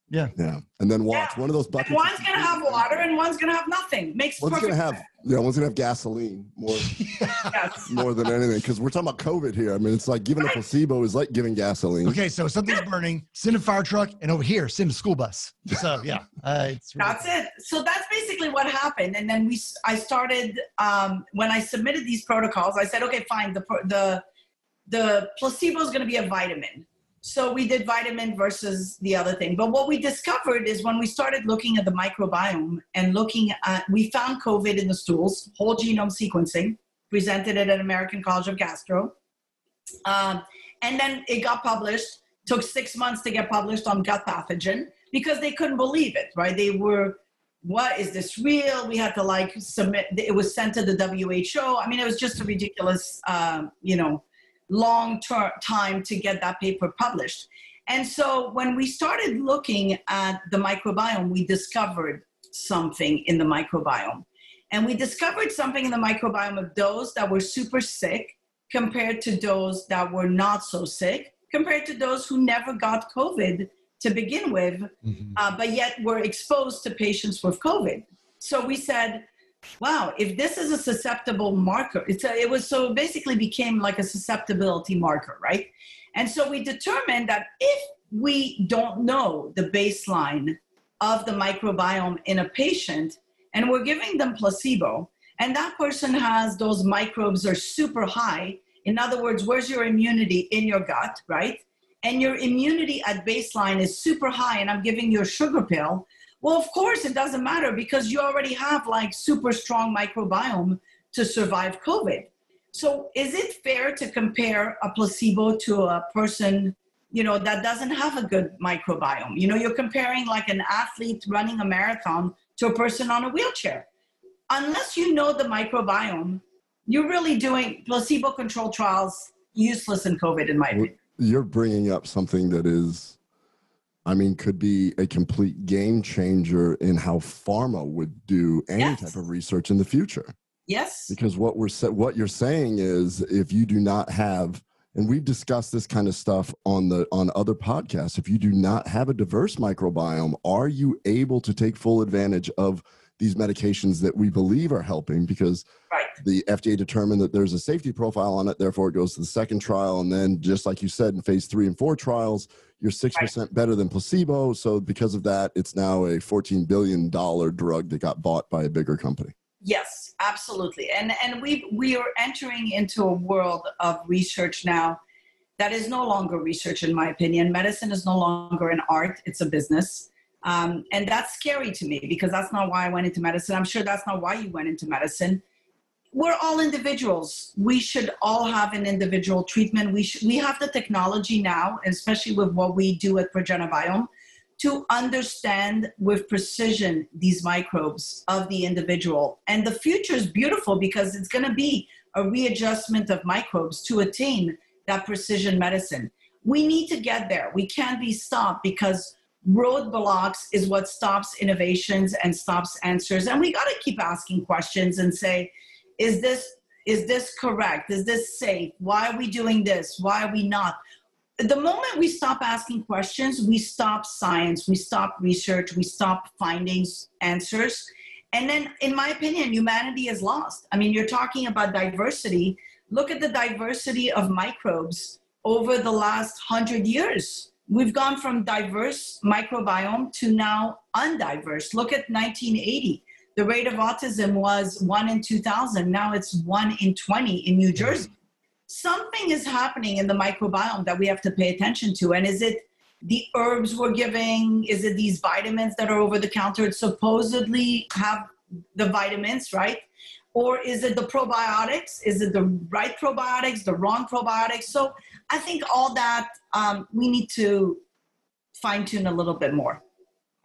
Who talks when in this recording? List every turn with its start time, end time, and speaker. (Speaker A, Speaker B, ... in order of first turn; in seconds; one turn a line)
Speaker A: 0.3-3.0
Speaker B: 1.1-5.0
Speaker A: 4.4-7.0
Speaker C: 6.7-7.5
Speaker B: 7.4-7.9
Speaker A: 7.8-12.2
Speaker C: 12.0-17.2
Speaker B: 17.0-24.2
Speaker B: 24.9-39.1
Speaker B: 40.0-79.3
Speaker C: 75.0-75.4
Speaker B: 79.8-123.9
Speaker B: 124.5-130.9
Speaker A: 130.7-133.2
Speaker A: 134.0-140.3
Speaker B: 138.8-139.1
Speaker B: 140.7-141.1
Speaker A: 141.1-155.6
Speaker A: 156.2-169.3
Speaker B: 169.6-175.0
Speaker B: 175.6-185.4
Speaker B: 186.1-220.8
Speaker B: 221.4-248.1
Speaker B: 248.7-267.8
Speaker B: 268.6-269.8